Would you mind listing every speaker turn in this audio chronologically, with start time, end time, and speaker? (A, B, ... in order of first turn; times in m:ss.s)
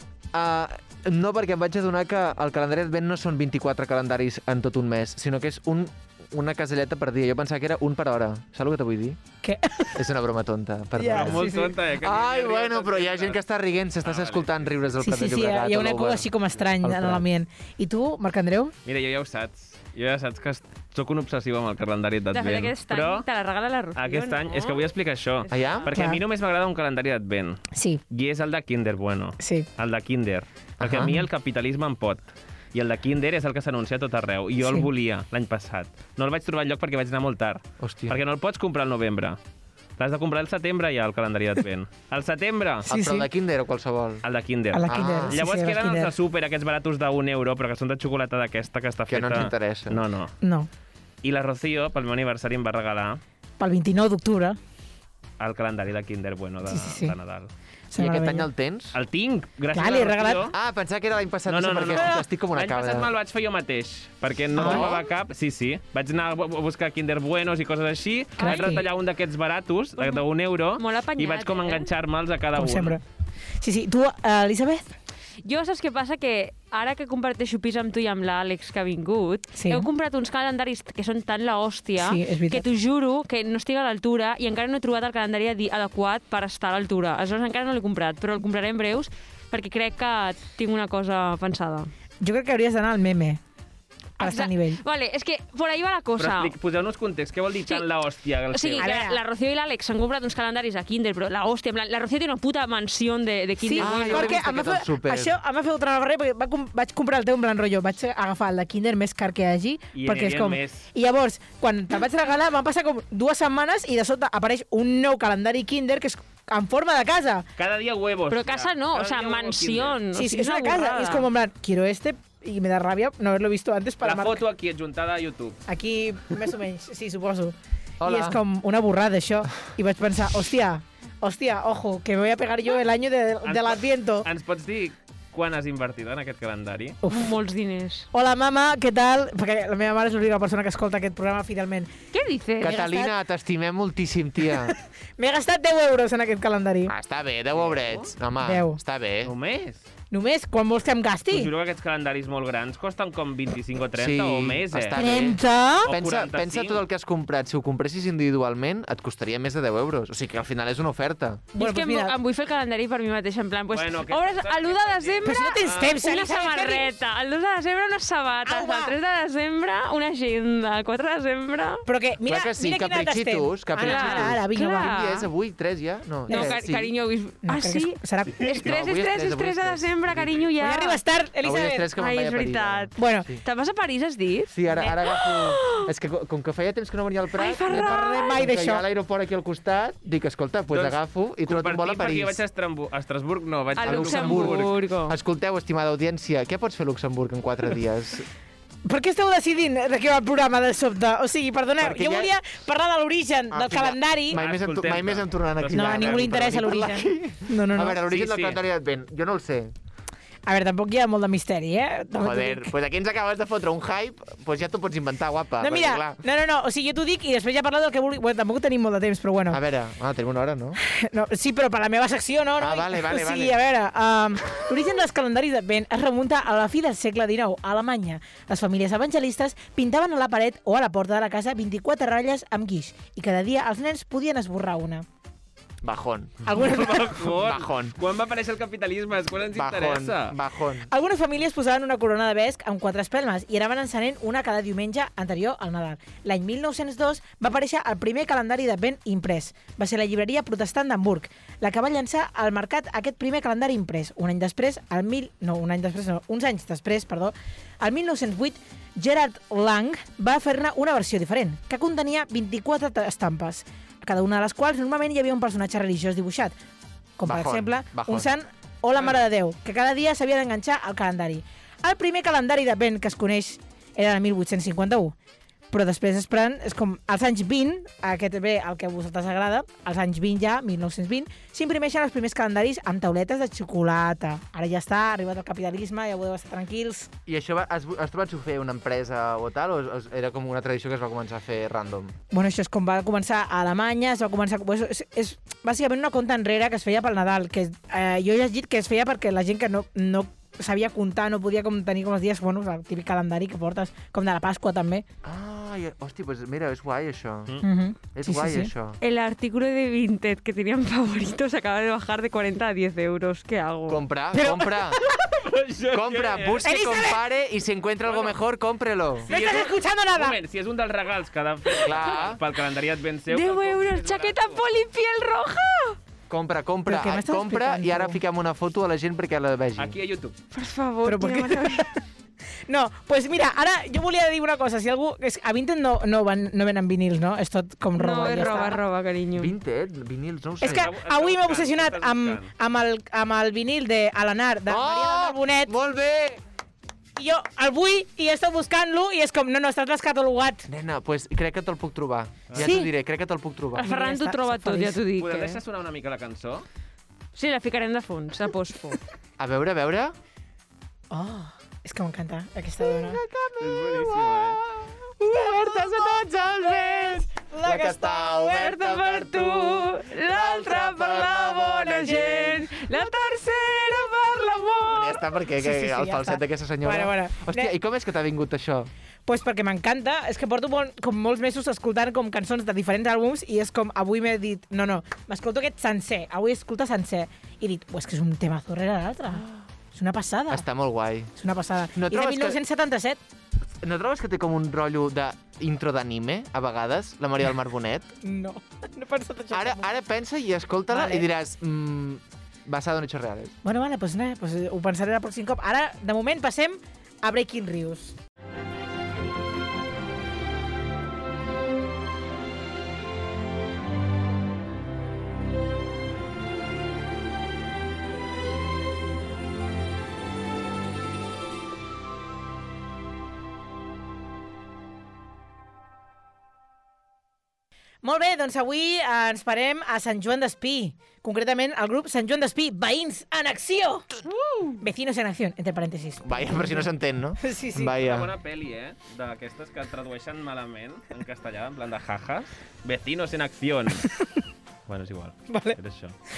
0:00.3-0:09.2 A
0:09.4-0:10.0 B
0:10.0-0:17.2 A
0:11.0-0:11.7 B
0:11.1-0:13.4 C
0:14.0-0:14.7 C
0:15.0-0:18.7 B
0:18.8-0:23.3 C
0:22.3-0:24.9 D
0:24.0-0:39.4 C
0:25.4-0:25.9 D
0:25.5-0:25.9 A
0:25.9-0:26.2 B
0:27.7-0:28.0 B
0:29.4-0:29.7 B
0:30.8-0:31.3 A
0:37.8-0:38.2 A
0:40.0-0:42.9 C
0:42.9-0:43.3 B
0:42.9-0:44.2 A
0:44.2-0:50.3 C
0:44.7-0:46.1 B
0:44.9-0:45.4 A
0:49.1-0:50.0 A
0:50.4-0:50.7 B
0:51.2-0:53.2 C
0:53.6-0:54.6 B
0:55.4-0:57.5 C
0:56.7-0:57.2 B
0:57.9-0:58.5 B
0:58.0-0:59.0 A
0:58.9-1:00.6 C
0:59.7-1:00.5 B
1:00.5-1:03.1 A
1:01.5-1:13.0 C
1:04.6-1:04.9 B
1:04.6-1:05.1 A
1:08.4-1:08.9 B
1:08.4-1:08.9 D
1:10.0-1:10.3 D
1:10.8-1:11.9 D
1:12.6-1:13.0 B
1:13.6-1:14.9 B
1:15.4-1:31.9 D
1:19.5-1:19.9 B
1:22.0-1:22.7 B
1:32.2-1:33.4 B
1:34.2-1:34.8 B
1:34.2-1:36.6 D
1:36.2-1:38.9 C
1:38.5-1:44.4 D
1:38.8-1:39.2 B
1:43.6-1:57.5 B
1:43.8-1:45.4 A
1:49.9-1:50.9 C
1:57.6-2:00.0 C
1:58.3-2:01.3 D
2:00.2-2:04.4 B
2:04.0-2:05.6 C
2:05.7-2:14.3 B
2:08.0-2:08.4 A
2:13.4-2:17.0 C
2:17.0-2:17.4 B
2:17.1-2:18.1 D
2:18.1-2:21.9 B
2:22.1-2:22.8 D
2:22.6-2:24.7 A
2:22.6-2:23.1 B
2:25.2-2:26.9 B
2:26.9-2:29.3 A
2:27.5-2:28.1 C
2:28.4-2:28.8 B
2:29.2-2:29.9 C
2:30.1-2:31.5 B
2:31.3-2:35.0 C
2:33.9-2:41.5 A
2:35.0-2:35.9 B
2:35.8-2:36.8 C
2:41.6-2:42.1 B
2:41.6-2:51.8 D
2:43.7-2:46.0 C
2:45.2-2:47.0 B
2:48.5-2:49.0 B
2:51.9-2:54.9 B
2:52.3-2:56.9 A
2:53.8-2:55.3 D
2:56.3-3:01.0 D
2:56.3-2:56.6 B
2:57.4-2:58.5 B
2:58.6-3:00.4 A
3:00.6-3:01.9 B
3:01.4-3:03.4 A
3:02.0-3:05.9 D
3:03.0-3:03.3 B
3:04.5-3:12.4 A
3:07.4-3:08.4 D
3:07.7-3:08.8 B
3:10.7-3:14.7 C
3:13.8-3:15.2 D
3:13.8-3:18.3 A
3:18.9-3:24.4 B
3:21.8-3:22.3 A
3:23.5-3:29.7 A
3:24.3-3:26.6 C
3:25.7-3:28.0 B
3:28.0-3:28.6 C
3:30.5-3:32.7 B
3:32.2-3:36.2 A
3:35.6-3:39.6 B
3:39.5-3:40.8 A
3:40.8-3:55.0 B
3:42.6-3:43.6 A
3:55.8-3:56.5 A
3:56.5-3:57.1 B
3:56.5-4:00.4 C
3:57.3-3:58.0 A
3:59.5-4:00.9 A
4:00.9-4:26.6 B
4:27.2-4:35.2 B
4:27.2-4:28.3 A
4:35.7-4:47.1 B
4:47.3-4:52.1 A
4:52.3-5:05.1 B
5:05.2-5:07.6 A
5:07.6-5:08.7 B
5:08.1-5:09.0 A
5:09.0-5:14.0 D
5:13.9-5:15.0 A
5:14.3-5:15.2 B
5:15.3-5:16.6 C
5:15.9-5:19.3 A
5:16.6-5:17.2 B
5:18.0-5:18.4 C
5:19.2-5:24.6 C
5:19.3-5:20.4 B
5:21.8-5:22.4 A
5:23.3-5:26.0 D
5:26.3-5:29.9 A
5:26.9-5:28.2 B
5:29.8-5:30.4 C
5:30.5-5:31.9 D
5:31.0-5:32.0 B
5:32.7-5:38.8 B
5:38.0-5:39.5 D
5:39.3-5:40.9 A
5:40.6-5:45.7 B
5:40.6-5:42.5 C
5:44.7-5:46.4 A
5:47.2-5:50.7 B
5:50.7-5:53.9 A
5:52.6-5:52.9 B
5:53.7-5:55.6 D
5:53.8-5:55.0 B
5:55.2-5:56.7 C
5:57.3-5:59.0 D
5:59.4-6:00.2 A
6:01.1-6:03.2 B
6:02.8-6:12.6 A
6:03.6-6:04.6 C
6:06.8-6:08.6 B
6:08.5-6:15.2 D
6:12.1-6:12.4 B
6:14.9-6:18.9 A
6:15.6-6:17.7 B
6:19.3-6:30.7 B
6:29.4-6:29.6 A
6:30.5-6:31.3 A
6:31.4-6:33.2 B
6:32.0-6:32.6 A
6:33.8-6:38.1 A
6:38.2-6:39.9 B
6:39.5-6:43.6 A
6:40.9-6:41.3 B
6:43.6-6:48.2 B
7:08.0-7:14.1 B
7:14.4-7:14.8 D
7:14.8-7:16.9 B
7:16.2-7:18.3 A
7:17.4-7:18.0 B
7:18.0-7:24.1 C
7:24.9-7:26.2 C
7:25.5-7:25.8 B